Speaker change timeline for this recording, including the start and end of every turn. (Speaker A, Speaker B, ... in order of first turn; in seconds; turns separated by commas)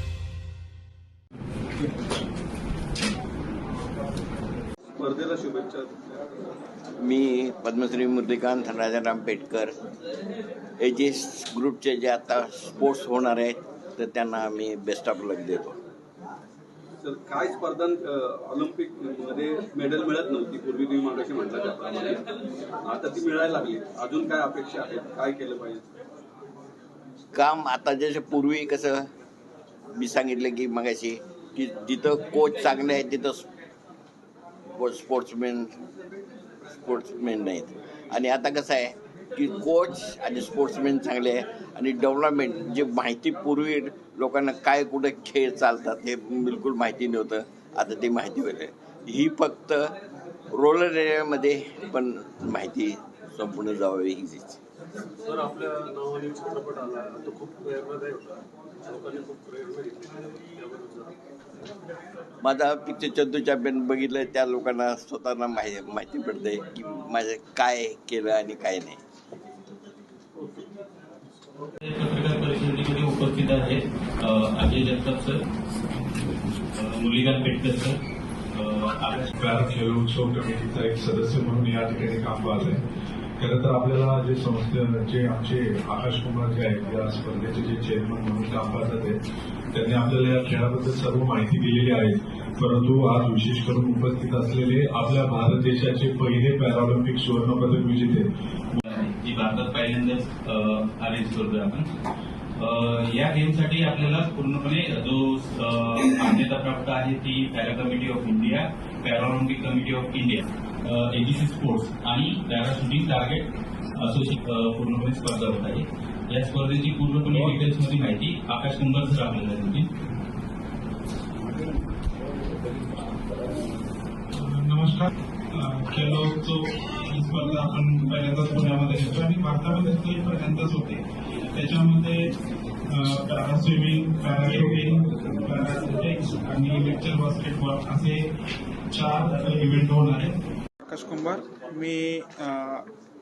Speaker A: 5.0-6.0, Speaker B: 7.0-9.7, Speaker B: 10.8-15.8, Speaker A: 17.0-22.2, Speaker A: 22.8-25.8, Speaker B: 27.3-29.1, Speaker B: 29.9-33.5, Speaker B: 34.8-35.8, Speaker B: 36.8-49.9, Speaker B: 50.5-54.6, Speaker C: 55.3-61.2, Speaker B: 62.4-69.0, Speaker A: 70.4-70.7, Speaker D: 71.8-75.4, Speaker D: 76.7-78.0, Speaker D: 78.5-79.3, Speaker E: 79.4-82.8, Speaker E: 83.4-89.2, Speaker E: 89.7-98.3, Speaker D: 98.7-101.9, Speaker D: 102.6-119.9, Speaker F: 124.3-132.3, Speaker F: 132.9-138.3, Speaker F: 138.9-142.9